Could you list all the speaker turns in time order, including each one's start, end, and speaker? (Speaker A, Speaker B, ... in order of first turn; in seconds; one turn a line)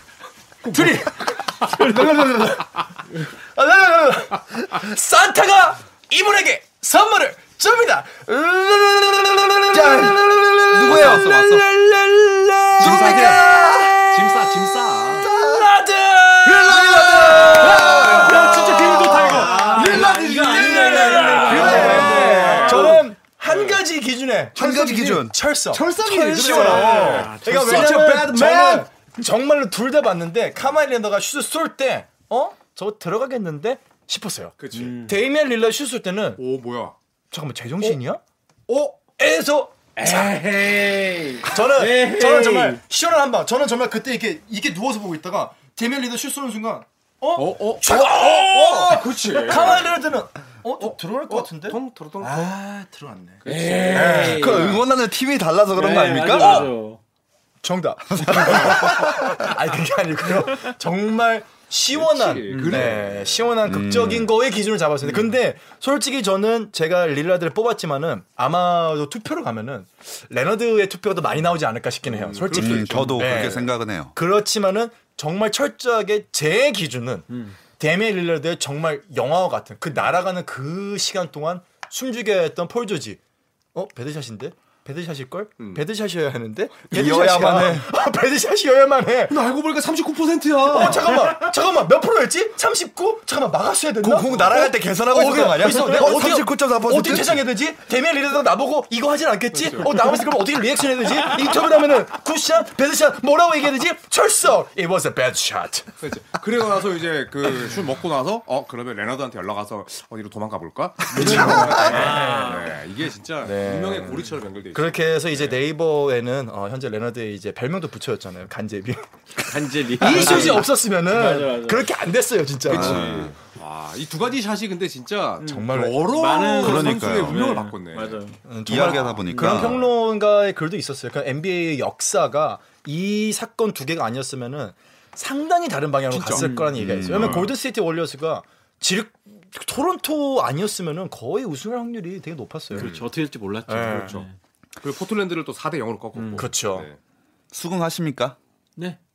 Speaker A: 0.6-1.4
Speaker B: 0.7-14.5
Speaker C: 9.7-11.2
Speaker A: 10.7-11.7
Speaker A: 12.8-15.3
Speaker C: 12.8-13.9
Speaker B: 15.1-36.4
Speaker C: 15.4-15.7
Speaker A: 16.5-23.8
Speaker C: 16.8-18.5
Speaker D: 18.1-23.0
Speaker C: 21.5-23.0
Speaker C: 24.6-25.4
Speaker A: 25.7-28.9
Speaker D: 26.4-28.0
Speaker C: 26.6-27.3
Speaker A: 34.6-35.0
Speaker D: 34.7-35.2
Speaker A: 36.4-37.0
Speaker B: 37.3-40.4
Speaker D: 40.0-42.8
Speaker B: 41.5-54.8
Speaker A: 47.4-50.0
Speaker A: 50.8-52.5
Speaker A: 53.4-54.8
Speaker D: 53.5-54.8
Speaker C: 53.9-56.7
Speaker D: 55.7-57.0
Speaker B: 56.4-56.7
Speaker B: 57.6-83.2
Speaker C: 58.2-59.4
Speaker A: 61.9-63.5
Speaker D: 62.5-63.0
Speaker C: 63.6-64.3
Speaker A: 72.0-73.7
Speaker C: 72.5-74.2
Speaker D: 77.3-77.6
Speaker B: 83.8-89.4
Speaker A: 85.6-85.8
Speaker C: 86.9-87.9
Speaker A: 89.3-91.3
Speaker B: 90.7-105.9
Speaker C: 94.0-97.4
Speaker A: 99.5-100.0
Speaker A: 106.0-115.6
Speaker B: 111.1-112.7
Speaker D: 111.1-112.8
Speaker C: 111.3-111.7
Speaker B: 113.4-119.1
Speaker D: 119.4-121.9
Speaker B: 119.9-123.1
Speaker A: 120.1-120.7
Speaker A: 122.6-128.2
Speaker C: 122.7-123.4
Speaker D: 125.4-128.4
Speaker B: 125.4-126.0
Speaker C: 126.6-127.5
Speaker B: 128.5-142.9
Speaker C: 128.7-129.9
Speaker A: 129.3-129.8
Speaker A: 136.1-136.5
Speaker D: 136.3-136.8
Speaker C: 136.7-137.5
Speaker A: 137.1-137.5
Speaker A: 142.7-143.1
Speaker D: 142.7-144.4
Speaker B: 143.7-144.1
Speaker A: 143.9-144.3
Speaker A: 144.8-147.0
Speaker D: 146.2-146.5
Speaker B: 146.4-146.9
Speaker C: 147.5-148.4